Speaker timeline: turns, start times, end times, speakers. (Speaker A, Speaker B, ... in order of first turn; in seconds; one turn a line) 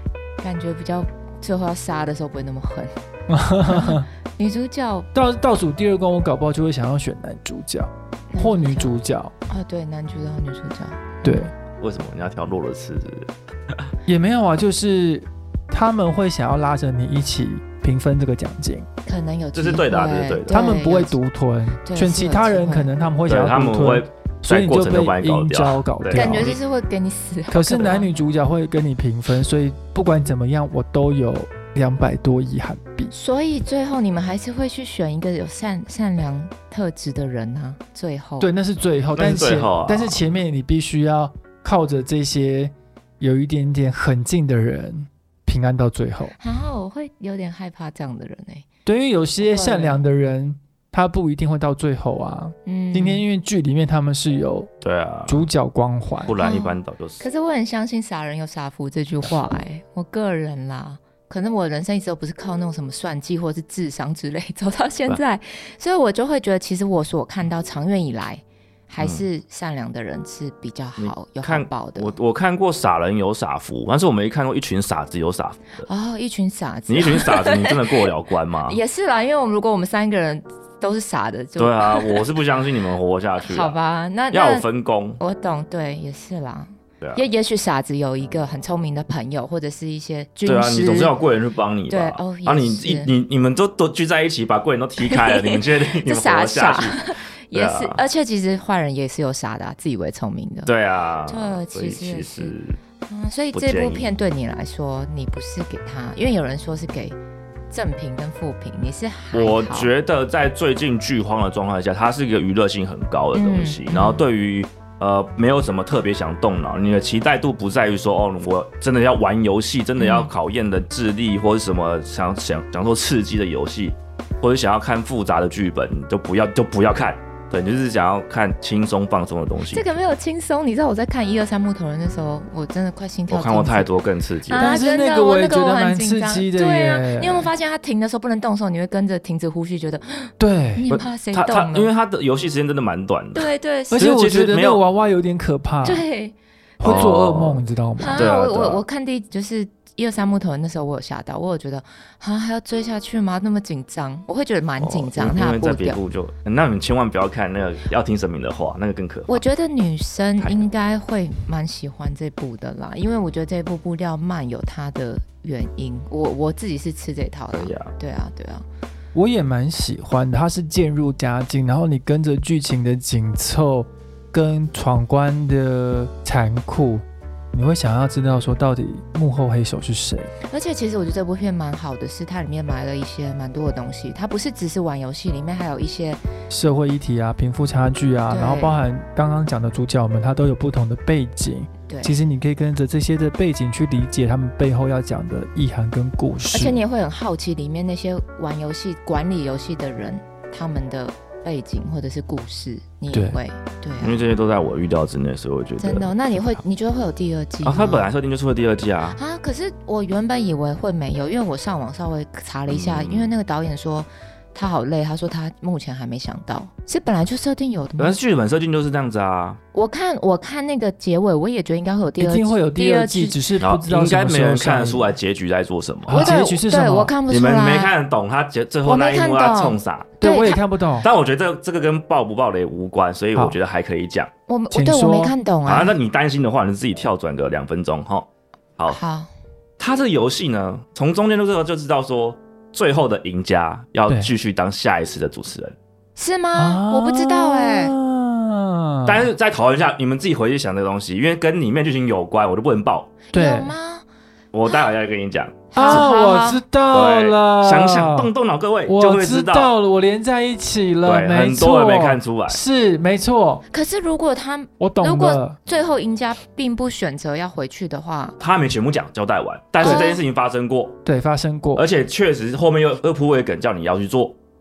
Speaker A: 0.4-2.9
Speaker B: 3.3-4.1
Speaker A: 3.7-5.1
Speaker B: 5.1-9.3
Speaker A: 8.3-8.9
Speaker A: 9.5-11.5
Speaker B: 11.2-11.5
Speaker C: 11.8-13.9
Speaker B: 14.1-18.9
Speaker A: 19.1-21.2
Speaker C: 19.6-20.6
Speaker B: 20.5-26.5
Speaker A: 21.9-22.9
Speaker C: 23.3-26.6
Speaker A: 26.1-28.1
Speaker B: 27.5-33.1
Speaker A: 33.1-38.5
Speaker B: 38.4-46.3
Speaker C: 39.2-40.2
Speaker A: 46.4-48.7
Speaker B: 48.9-54.7
Speaker A: 49.4-50.0
Speaker A: 52.7-53.2
Speaker C: 54.8-55.4
Speaker B: 55.3-56.4
Speaker C: 56.3-57.2
Speaker A: 56.4-72.2
Speaker C: 69.0-69.2
Speaker C: 71.0-75.9
Speaker A: 75.8-78.1
Speaker C: 76.9-78.8
Speaker A: 78.7-82.3
Speaker C: 81.6-83.7
Speaker A: 83.4-84.7
Speaker C: 84.3-85.2
Speaker A: 85.2-91.1
Speaker C: 90.5-98.0
Speaker A: 91.9-93.1
Speaker A: 95.0-100.7
Speaker C: 100.7-102.8
Speaker A: 101.3-102.5
Speaker A: 103.1-107.2
Speaker C: 103.5-104.1
Speaker A: 107.7-109.9
Speaker C: 109.3-129.9
Speaker A: 113.3-114.2
Speaker A: 120.0-120.3
Speaker A: 129.7-133.9
Speaker C: 133.3-134.7
Speaker A: 134.5-141.9
Speaker B: 134.5-137.5
Speaker B: 140.4-140.9
Speaker C: 140.9-144.8
Speaker A: 143.3-144.0
Speaker B: 143.9-146.1
Speaker A: 145.8-146.3
Speaker B: 146.8-148.3
Speaker C: 146.8-147.6
Speaker A: 148.0-156.0
Speaker C: 148.1-148.8
Speaker C: 154.8-159.4
Speaker A: 159.3-168.7
Speaker C: 160.4-160.7
Speaker C: 167.5-167.9
Speaker B: 169.2-180.3
Speaker A: 180.5-186.2
Speaker B: 186.5-196.8
Speaker A: 188.3-188.8
Speaker A: 191.9-192.2
Speaker A: 196.5-204.3
Speaker B: 203.1-203.4
Speaker C: 204.0-206.6
Speaker A: 205.8-208.1
Speaker C: 207.6-209.2
Speaker A: 209.2-218.2
Speaker C: 212.7-213.3
Speaker C: 218.0-219.6
Speaker A: 219.7-223.4
Speaker B: 222.2-225.1
Speaker C: 223.6-226.4
Speaker B: 226.1-227.1
Speaker A: 226.1-227.9
Speaker C: 227.3-230.2
Speaker A: 228.8-230.6
Speaker B: 230.2-231.1
Speaker C: 231.0-234.3
Speaker A: 234.5-235.9
Speaker B: 234.7-235.3
Speaker C: 235.7-238.3
Speaker A: 238.9-239.3
Speaker C: 239.8-245.8
Speaker A: 246.2-247.9
Speaker B: 246.6-249.3
Speaker C: 249.1-253.2
Speaker A: 253.3-254.1
Speaker B: 253.3-253.7
Speaker C: 254.5-256.1
Speaker A: 255.7-256.6
Speaker B: 255.8-258.3
Speaker C: 256.9-259.7
Speaker B: 258.9-263.6
Speaker C: 261.1-262.6
Speaker A: 263.7-268.4
Speaker B: 264.8-265.6
Speaker C: 268.4-271.0
Speaker B: 269.8-270.1
Speaker A: 269.8-270.2
Speaker B: 271.1-271.9
Speaker C: 271.8-274.4